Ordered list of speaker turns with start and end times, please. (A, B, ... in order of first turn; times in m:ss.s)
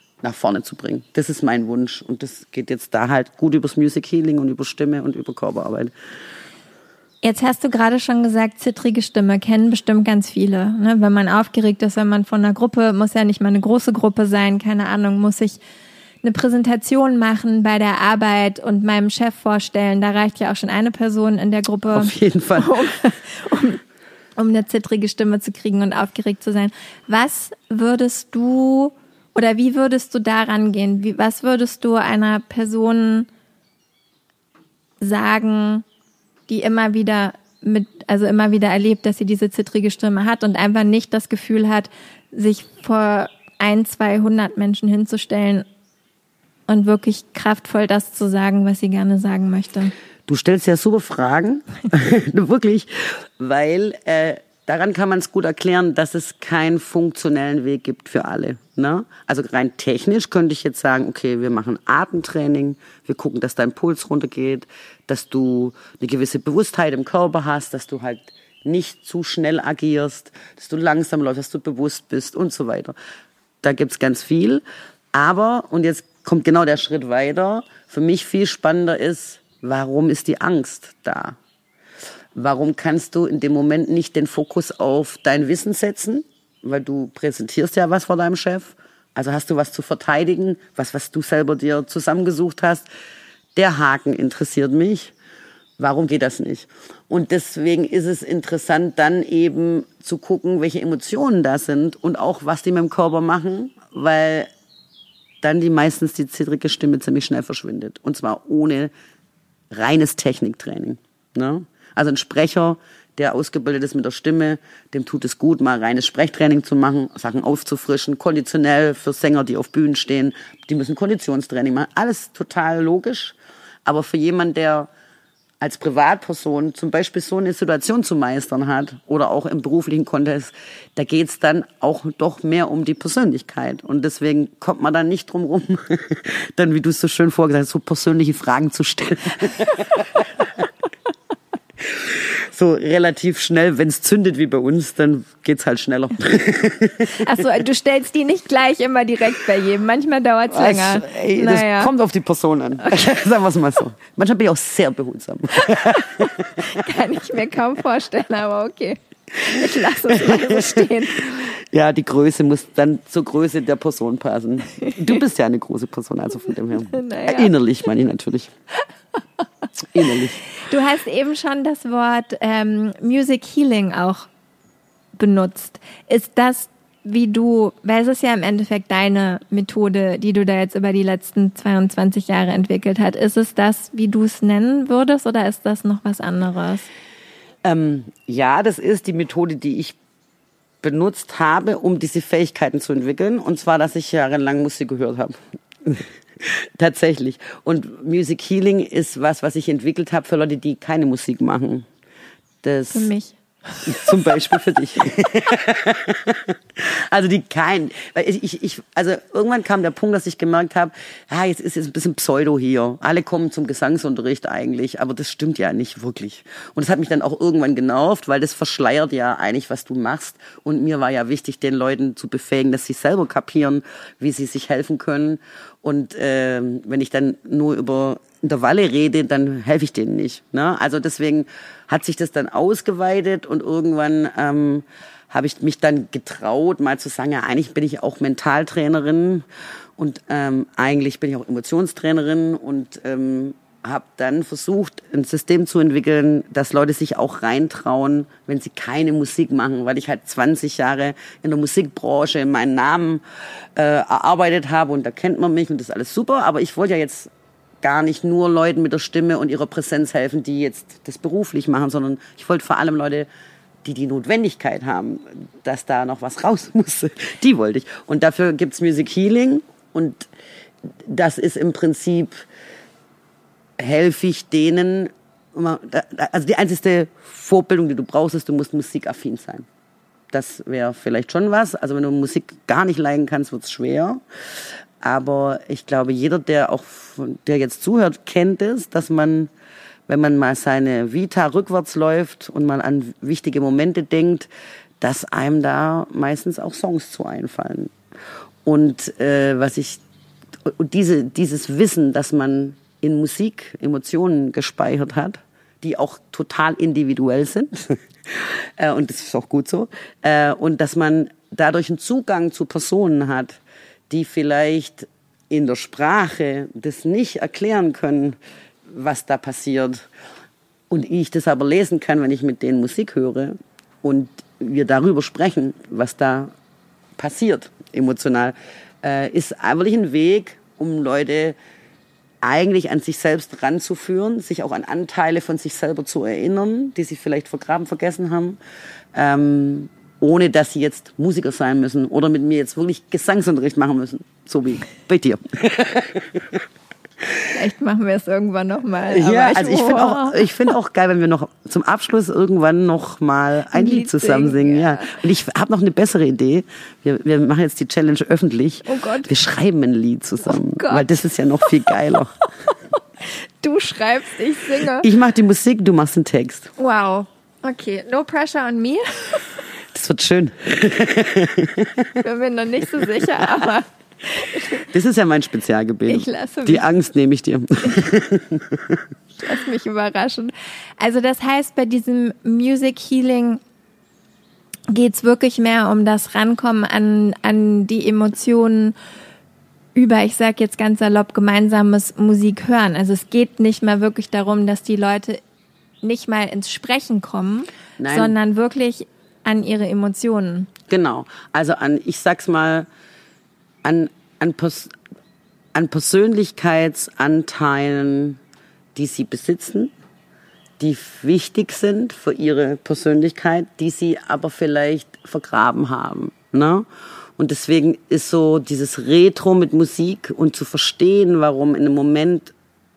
0:00.2-0:05.9 A
0:07.2-0:15.6 B
0:16.2-0:23.8 B
0:21.9-0:22.8 A
0:24.4-0:33.3 B
0:35.0-0:35.8 B
0:36.5-0:45.7 B
0:46.7-0:49.9 B
0:50.3-1:13.0 A
1:13.6-1:14.6 A
1:15.1-1:21.4 A
1:22.4-1:32.9 A
1:33.6-1:35.1 A
1:35.8-1:44.5 A
1:45.4-1:48.9 A
1:49.7-2:04.9 A
2:05.6-2:20.5 A
2:21.8-2:27.2 A
2:27.2-2:31.9 B
2:30.5-2:36.5 A
2:35.7-2:41.5 B
2:40.1-2:48.5 A
2:46.7-2:47.5 B
2:49.8-2:50.4 A
2:50.6-2:54.3 B
2:55.2-3:06.9 B
3:07.6-3:10.0 A
3:10.8-3:21.9 A
3:22.6-3:23.1 A
3:22.9-3:23.8 B
3:23.8-3:59.4 A
4:00.0-4:13.2 A
4:13.8-4:17.3 A
4:17.8-4:23.3 A
4:23.8-4:30.3 A
4:30.9-4:32.4 A
4:33.8-4:39.7 A
4:40.3-4:44.2 A
4:45.0-4:49.5 A
4:50.1-4:54.5 A
4:55.0-4:57.9 A
4:58.6-5:00.0 A
5:00.6-5:18.4 A
5:18.9-5:20.1 A
5:20.9-5:26.5 A
5:27.2-5:31.6 A
5:32.4-5:38.6 A
5:39.1-5:46.6 A
5:47.5-5:50.5 B
5:49.1-6:02.4 A
5:53.7-5:55.2 B
5:58.9-5:59.3 B
6:00.5-6:01.8 B
6:03.6-6:05.1 B
6:05.0-6:06.7 A
6:06.8-6:09.6 B
6:09.9-6:12.1 A
6:12.2-6:14.9 B
6:14.8-6:19.0 A
6:16.1-6:16.8 B
6:19.4-6:23.6 B
6:24.9-6:29.0 B
6:30.0-6:35.4 B
6:36.0-6:40.7 B
6:38.0-6:38.4 A
6:40.9-6:42.9 A
6:43.8-6:44.9 A
6:45.7-6:48.4 A
6:49.0-6:49.9 A
6:50.8-7:02.5 A